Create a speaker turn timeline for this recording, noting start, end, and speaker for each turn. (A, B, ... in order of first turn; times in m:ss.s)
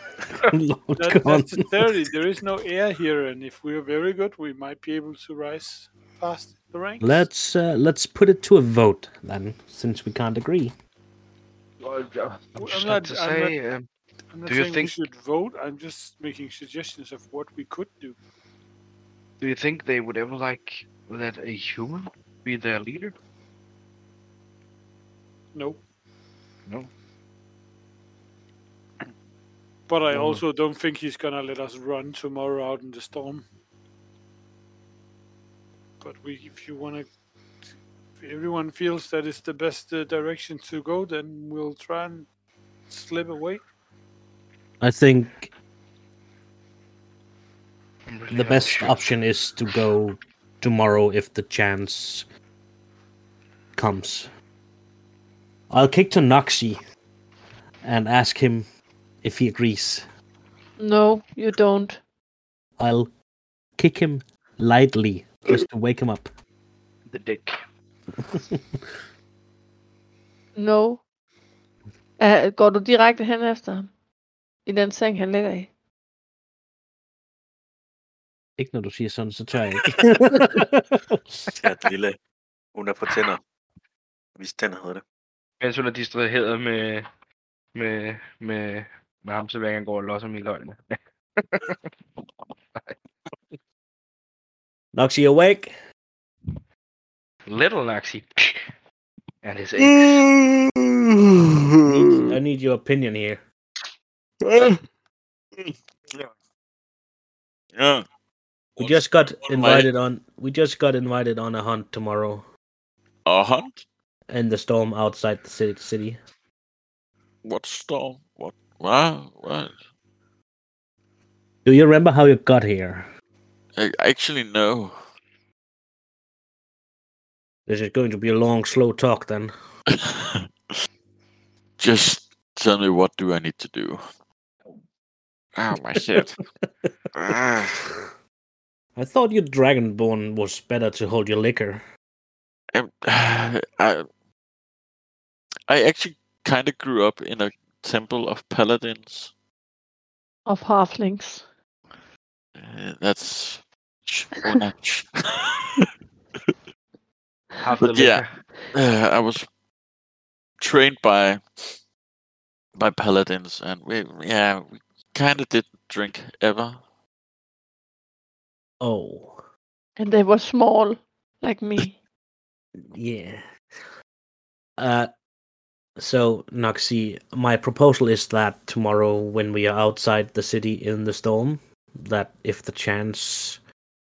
0:00.5-0:01.7 A
0:01.0-0:07.2 B
0:07.0-0:10.7 A
0:11.8-0:13.9 C
0:12.6-0:13.5 B
0:14.3-0:18.2 B
0:14.5-0:14.9 C
0:19.4-0:23.2 C
0:25.5-0:25.8 B
0:29.9-0:33.4 B
0:30.1-0:30.4 C
0:36.0-0:37.1 B
0:38.2-0:42.3 B
0:42.9-0:43.6 B
0:44.8-0:45.5 A
0:48.1-0:49.1 C
0:48.3-0:52.3 A
0:53.8-0:54.3 A
0:55.7-0:56.8 A
0:57.8-0:58.7 A
0:59.2-1:00.1 A
1:00.8-1:02.0 D
1:02.8-1:03.1 A
1:03.8-1:06.3 A
1:07.1-1:07.6 C
1:08.3-1:08.8 A
1:10.6-1:11.0 D
1:12.2-1:13.9 D
1:14.6-1:15.7 D
1:18.6-1:21.5 A
1:21.5-1:22.2 E
1:22.7-1:23.4 E
1:24.4-1:25.0 E
1:25.6-1:27.1 C
1:27.7-1:31.9 C
1:34.9-1:35.7 A
1:37.5-1:38.6 C
1:39.4-1:40.3 C
1:39.8-1:42.4 F
1:42.2-1:43.4 A
1:44.4-1:44.8 F
1:45.6-1:46.3 F
1:47.8-1:48.0 F
1:48.8-1:49.9 F
1:48.8-1:52.4 A
1:53.2-1:53.8 F
1:54.3-1:56.2 A
1:57.4-1:59.8 F
2:01.6-2:03.1 A
2:03.8-2:05.0 F
2:07.7-2:09.5 A
2:09.9-2:10.5 F
2:11.8-2:14.0 F
2:15.5-2:16.4 F
2:16.6-2:16.9 A
2:17.1-2:17.9 F
2:17.7-2:18.0 A
2:18.9-2:21.8 A
2:22.7-2:24.0 F
2:25.7-2:29.3 F
2:30.4-2:31.5 D
2:32.6-2:35.9 F
2:37.6-2:38.4 C
2:37.8-2:39.5 F
2:40.6-2:41.8 F
2:42.8-2:46.8 F
2:48.8-2:49.4 A
2:50.0-2:52.0 D
2:52.9-2:53.4 A
2:54.8-2:55.1 A
2:56.0-3:03.6 A